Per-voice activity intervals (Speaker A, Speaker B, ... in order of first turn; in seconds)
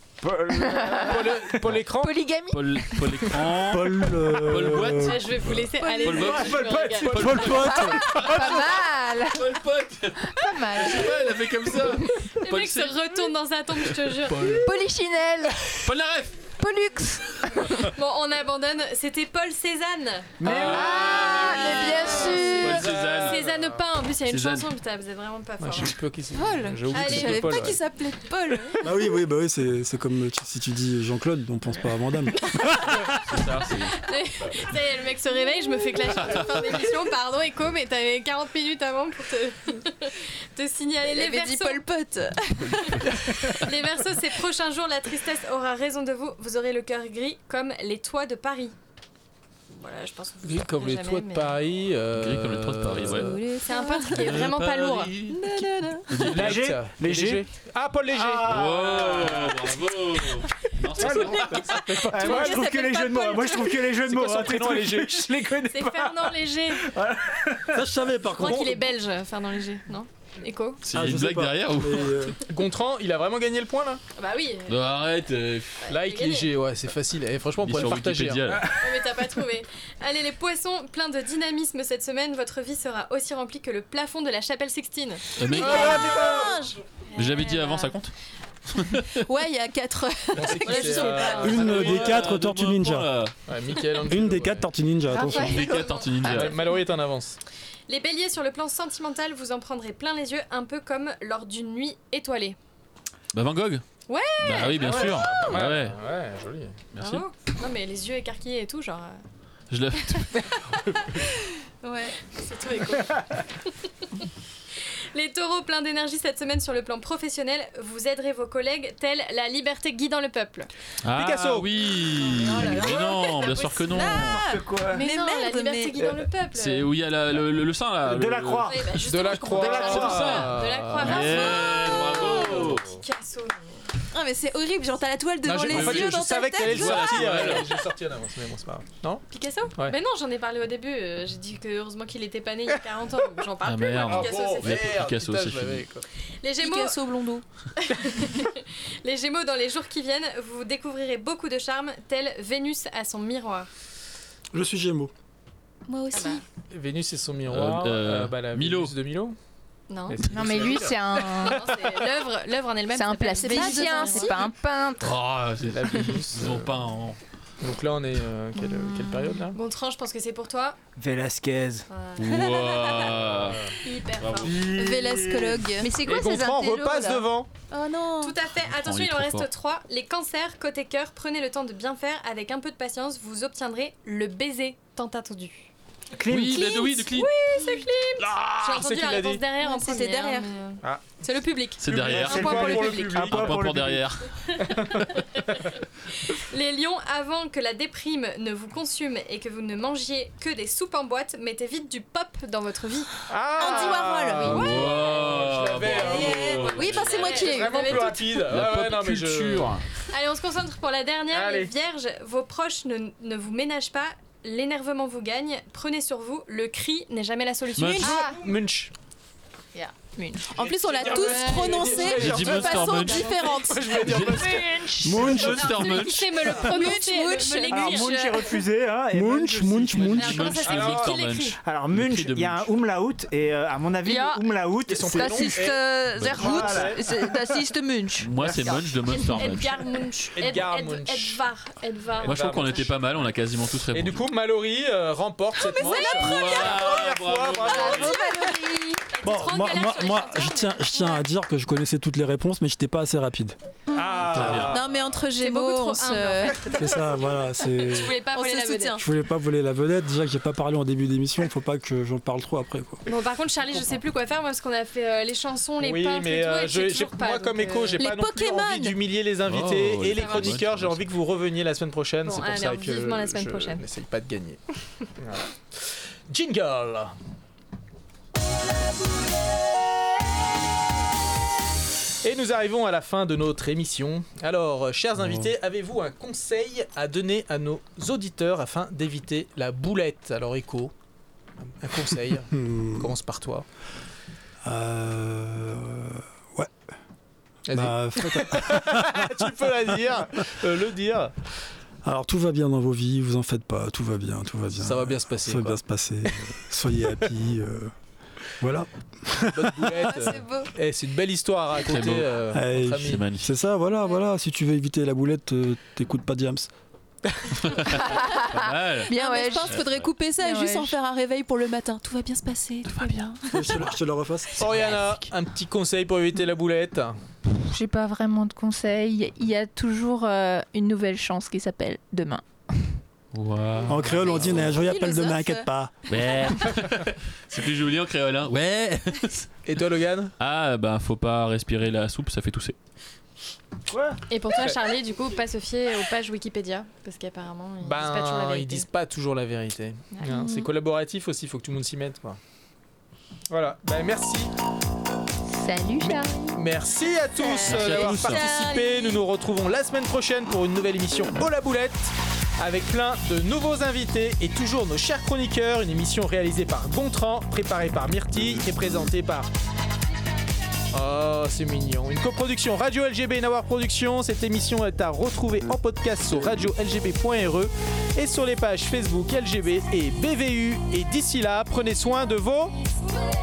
Speaker A: 0.2-1.6, 6.2-7.4, 20.4-21.2, 56.3-57.4, 58.1-59.5, 60.9-67.8, 124.2-125.0, 128.0-130.5, 171.0-171.9, 174.4-175.7, 186.2-187.1, 192.0-194.1, 227.7-230.4, 231.6-235.7, 236.3-237.3, 238.4-238.9, 343.9-344.2
Speaker B: 0.6-1.2, 2.0-3.4, 7.5-9.6, 10.2-12.0, 14.6-15.9, 16.6-17.7, 20.5-22.8, 160.3-161.8, 162.9-165.1, 219.7-220.6, 246.0-246.5, 247.7-249.0, 318.0-319.8, 320.4-321.0, 327.5-333.0, 334.2-335.6, 350.3-350.6, 355.5-356.6, 357.9-358.8
Speaker C: 1.0-2.2, 7.1-7.4, 14.3-14.6, 22.4-23.8, 25.6-27.8, 50.4-53.4, 56.1-59.4, 61.0-62.7, 64.0-65.5, 72.5-74.0, 75.9-78.7, 85.5-86.1, 90.3-92.2, 93.5-94.7, 96.2-97.4, 104.7-106.8, 121.1-121.7, 128.9-132.8, 135.4-139.2, 144.0-146.1, 156.7-159.4, 160.1-161.5, 165.6-166.8, 167.6-169.6, 173.3-173.7, 175.9-177.5, 188.2-189.4, 190.8-191.2, 191.8-193.7, 194.8-195.0, 203.3-209.8, 211.3-211.7, 218.0-218.9, 220.6-225.5, 230.7-231.2, 234.9-237.0, 240.3-241.4, 242.2-242.9, 243.9-248.2, 253.9-254.8, 265.8-274.6, 275.1-277.1, 282.2-290.9, 291.6-293.6, 297.7-301.3, 304.7-306.4, 309.5-313.2, 324.6-327.1, 339.6-340.3, 347.8-352.4, 353.5-354.5, 356.0-369.5, 370.9-382.8
Speaker D: 2.5-5.5, 6.0-8.5, 9.3-13.2, 13.9-14.6, 15.8-16.5, 17.4-17.9, 20.4-23.4, 24.3-24.7, 33.3-34.0, 52.1-53.4, 54.1-55.5, 56.1-56.7, 58.4-61.7, 70.8-72.3, 74.7-75.9, 77.6-78.8, 85.4-86.3, 87.1-88.1, 88.7-89.1, 91.6-93.3, 95.2-96.5, 103.3-103.8, 104.4-106.0, 106.9-107.2, 109.7-110.5, 121.0-124.4, 126.5-128.7, 129.6-132.9, 135.7-137.7, 143.6-145.9, 157.5-158.9, 165.0-167.2, 172.2-174.6, 178.5-179.5, 186.3-187.3, 191.8-194.3, 204.4-207.2, 208.4-209.9, 217.8-218.1, 221.9-223.4, 224.0-226.6, 230.1-232.7, 238.2-239.8, 242.2-244.2, 246.0-248.2, 254.3-254.9, 269.4-271.1, 311.8-313.5, 317.7-320.1, 322.9-323.3, 333.3-334.7, 336.1-339.5, 340.4-342.7, 357.6-358.4
Speaker E: 3.4-5.3, 7.2-8.1, 28.8-32.9, 67.7-68.9, 70.9-72.3, 91.4-93.1, 94.1-95.6, 154.5-155.1, 225.0-225.6, 229.1-230.4, 249.2-253.5, 254.3-254.7, 256.8-258.2, 259.0-263.0, 285.2-285.5, 292.5-293.1, 294.6-296.7, 297.7-299.3, 302.0-307.9, 308.6-310.0, 312.5-316.7, 323.5-324.9, 333.9-336.0
Speaker F: 5.0-7.5, 8.0-8.2, 12.4-14.7, 17.7-20.4, 21.6-26.0, 26.9-27.7, 33.9-41.9, 42.8-48.7, 49.7-51.6, 53.6-55.1, 65.6-66.9, 68.3-70.9, 74.2-74.8, 75.8-76.5, 78.7-86.6, 87.1-88.0, 90.6-91.7, 95.1-96.7, 97.9-102.6, 104.1-105.4, 107.0-109.2, 110.1-110.4, 111.8-113.4, 114.2-120.7, 122.1-126.9, 128.6-133.9, 139.3-144.9, 146.4-147.0, 147.8-153.7, 156.1-156.4, 159.9-160.8, 161.3-164.5, 169.5-170.8, 171.9-172.5, 173.8-174.7, 178.2-185.7, 186.6-193.2, 194.5-195.7, 196.2-205.2, 205.7-208.3, 210.1-218.2, 221.2-221.7, 225.4-228.2, 230.1-231.6, 239.3-242.9, 249.1-251.2, 255.3-256.9, 257.9-259.0, 263.0-268.0, 270.1-270.6, 272.2-273.8, 344.3-348.9
Speaker G: 26.3-28.8, 41.0-42.9, 53.1-56.1, 62.1-63.8, 85.5-86.8, 89.2-91.5, 123.9-126.1, 131.6-132.0, 134.1-137.6, 146.6-147.4, 155.9-156.4, 163.5-164.3, 174.7-178.3, 189.6-190.6, 203.6-204.8, 205.8-208.1, 220.5-225.0, 226.6-228.4, 234.1-234.4, 235.1-238.8, 245.7-246.5, 247.9-248.8, 254.7-256.6, 258.3-259.0, 268.0-269.0, 310.1-310.7, 319.1-323.8, 334.9-335.6, 357.7-359.2